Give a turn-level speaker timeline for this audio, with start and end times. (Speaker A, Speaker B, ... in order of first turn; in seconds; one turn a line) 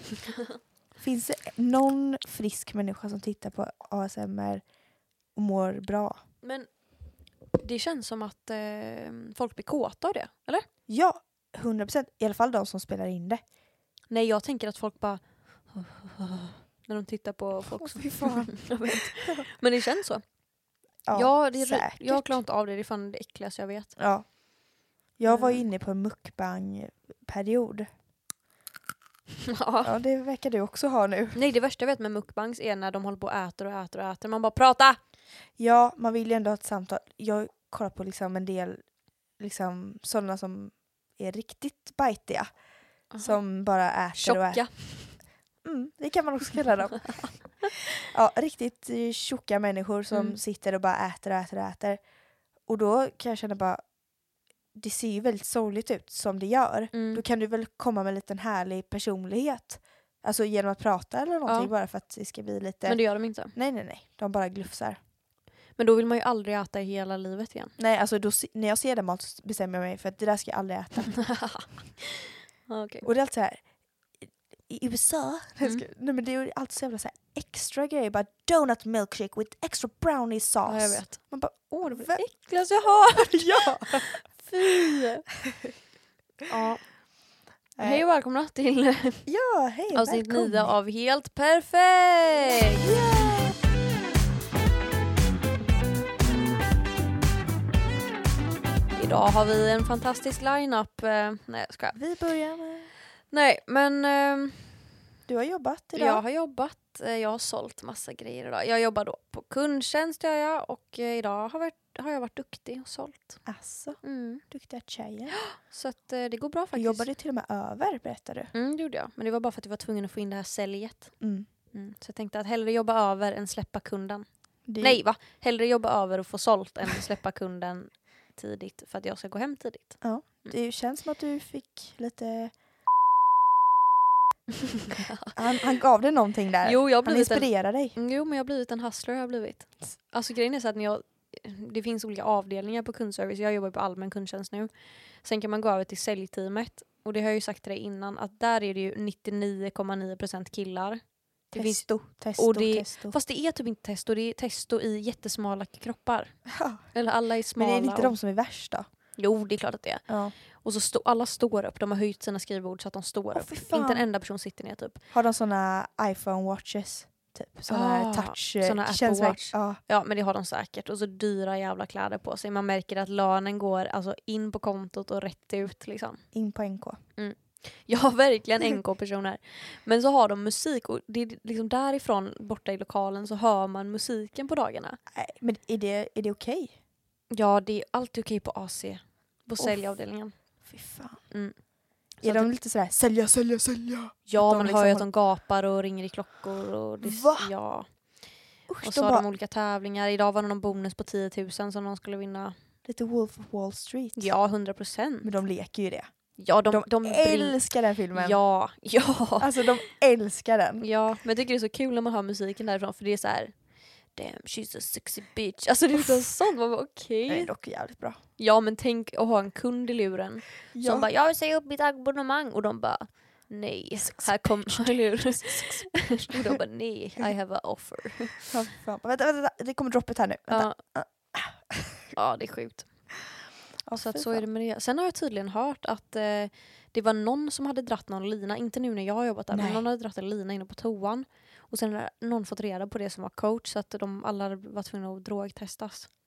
Speaker A: 0.2-0.6
Speaker B: 1.0-4.6
Speaker B: 5.3-6.2
Speaker A: 6.4-6.7
Speaker A: 7.5-10.7
Speaker B: 10.9-13.4
Speaker A: 14.1-20.2
Speaker B: 17.7-19.4
Speaker B: 21.0-22.4
Speaker A: 21.1-24.0
Speaker B: 24.0-24.3
Speaker B: 25.2-27.9
Speaker A: 25.2-25.6
Speaker A: 29.5-29.9
Speaker B: 29.8-31.4
Speaker A: 31.3-35.0
Speaker B: 35.6-38.8
Speaker B: 39.4-42.5
Speaker A: 43.1-43.4
Speaker B: 43.2-44.6
Speaker A: 44.1-45.2
Speaker B: 45.6-52.0
Speaker A: 50.1-50.4
Speaker B: 52.6-53.8
Speaker B: 54.7-65.0
Speaker A: 56.9-57.2
Speaker A: 61.5-61.7
Speaker A: 62.8-63.5
Speaker A: 65.8-67.7
Speaker B: 67.8-71.5
Speaker A: 71.2-73.1
Speaker B: 73.0-73.6
Speaker B: 74.2-82.3
Speaker A: 80.6-85.3
Speaker B: 83.2-84.2
Speaker A: 86.5-86.9
Speaker B: 87.8-88.0
Speaker A: 87.8-89.3
Speaker B: 89.2-90.7
Speaker A: 89.9-92.9
Speaker B: 92.8-93.5
Speaker A: 98.9-102.0
Speaker B: 101.9-102.9
Speaker A: 103.3-104.8
Speaker B: 105.3-106.2
Speaker A: 105.9-113.5
Speaker B: 113.4-115.4
Speaker A: 114.0-114.4
Speaker A: 115.4-117.1
Speaker B: 116.7-118.5
Speaker A: 118.5-130.5
Speaker B: 121.2-121.5
Speaker B: 124.7-125.0
Speaker B: 130.0-132.5
Speaker A: 134.9-135.3
Speaker B: 135.3-137.9
Speaker A: 136.6-158.1
Speaker B: 151.5-153.2
Speaker B: 156.5-156.8
Speaker B: 157.6-158.9
Speaker A: 159.2-165.0
Speaker B: 160.1-160.3
Speaker B: 163.3-164.1
Speaker B: 165.1-169.8
Speaker A: 167.7-176.2
Speaker B: 176.3-177.0
Speaker A: 177.2-185.0
Speaker B: 185.1-186.8
Speaker A: 187.3-190.3
Speaker B: 189.6-189.8
Speaker B: 190.6-191.2
Speaker A: 191.3-192.5
Speaker B: 192.2-195.1
Speaker A: 194.3-198.2
Speaker B: 197.0-197.5
Speaker B: 198.7-199.2
Speaker A: 198.8-202.5
Speaker B: 202.8-204.3
Speaker A: 204.2-205.3
Speaker B: 205.2-208.4
Speaker A: 206.4-209.9
Speaker B: 209.4-210.9
Speaker A: 210.8-213.6
Speaker A: 214.1-217.5
Speaker B: 216.0-216.3
Speaker B: 217.3-218.2
Speaker A: 218.4-228.5
Speaker B: 220.7-221.1
Speaker B: 223.9-226.3
Speaker B: 228.5-232.1
Speaker A: 230.5-230.8
Speaker A: 232.1-233.1
Speaker B: 233.8-234.4
Speaker A: 233.9-246.1
Speaker B: 239.5-239.8